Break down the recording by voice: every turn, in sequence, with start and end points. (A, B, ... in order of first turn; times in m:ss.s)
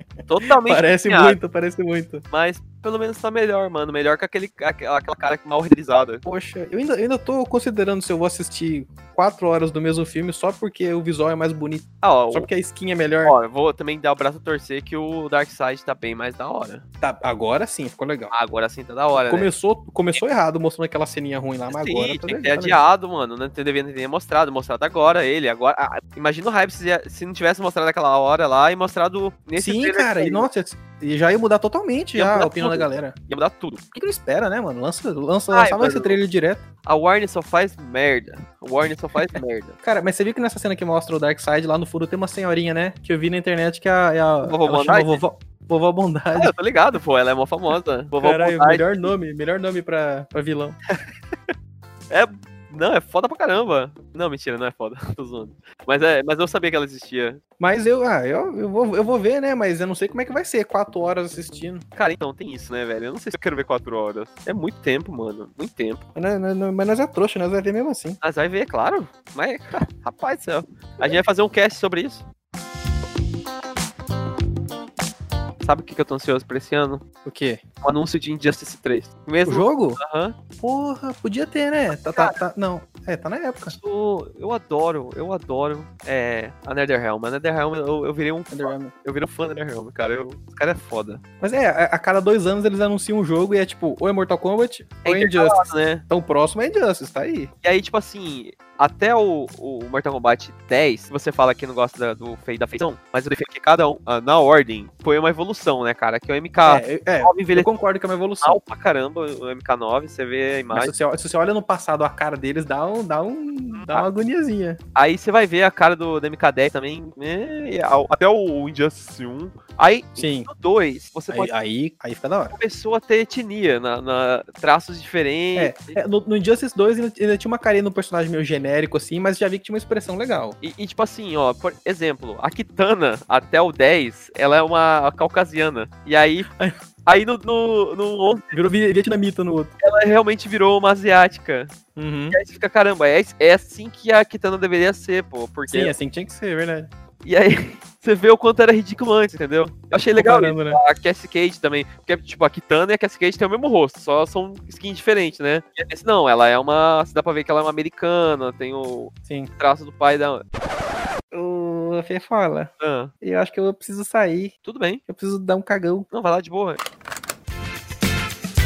0:00.3-0:01.4 A
0:00.6-0:02.2 B
0:02.3-0:06.2 A
0:06.2-0:13.3 B
0:12.0-0:12.5 A
0:13.2-0:16.8 A
0:17.0-0:18.3 B
0:18.3-0:19.5 A
0:19.1-0:22.8 B
0:21.7-0:30.5 A
0:29.6-0:33.1 B
0:32.2-0:33.8 A
0:33.9-0:36.6 B
0:35.5-0:36.2 A
0:36.8-0:39.8 A
0:39.8-0:46.5 B
0:44.4-0:45.2 A
0:46.3-0:49.1 A
0:48.2-0:50.8 B
0:52.1-0:57.4 A
0:57.6-1:01.8 B
1:02.0-1:06.0 A
1:06.1-1:08.2 B
1:08.2-1:12.2 A
1:15.6-1:17.0 A
1:17.2-1:17.6 B
1:17.8-1:20.4 A
1:19.4-1:20.0 B
1:20.6-1:23.8 B
1:22.0-1:22.4 A
1:23.7-1:31.2 A
1:28.5-1:28.9 B
1:31.4-1:37.5 B
1:35.0-1:36.0 A
1:37.6-1:47.7 A
1:46.6-1:48.6 B
1:48.4-1:50.9 A
1:50.7-1:54.8 B
1:53.7-1:54.0 A
1:55.0-2:01.5 A
2:00.2-2:00.5 B
2:01.3-2:02.5 B
2:02.5-2:06.0 A
2:05.5-2:10.6 B
2:10.6-2:16.5 A
2:17.0-2:18.6 A
2:18.5-2:19.7 B
2:19.8-2:21.7 A
2:22.0-2:22.4 B
2:22.3-2:25.9 A
2:25.7-2:26.9 B
2:27.2-2:40.4 A
2:30.1-2:30.8 B
2:41.3-2:42.7 B
2:42.8-2:43.1 A
2:43.2-2:44.5 B
2:44.6-2:45.0 A
2:45.1-2:46.1 B
2:46.1-2:46.8 A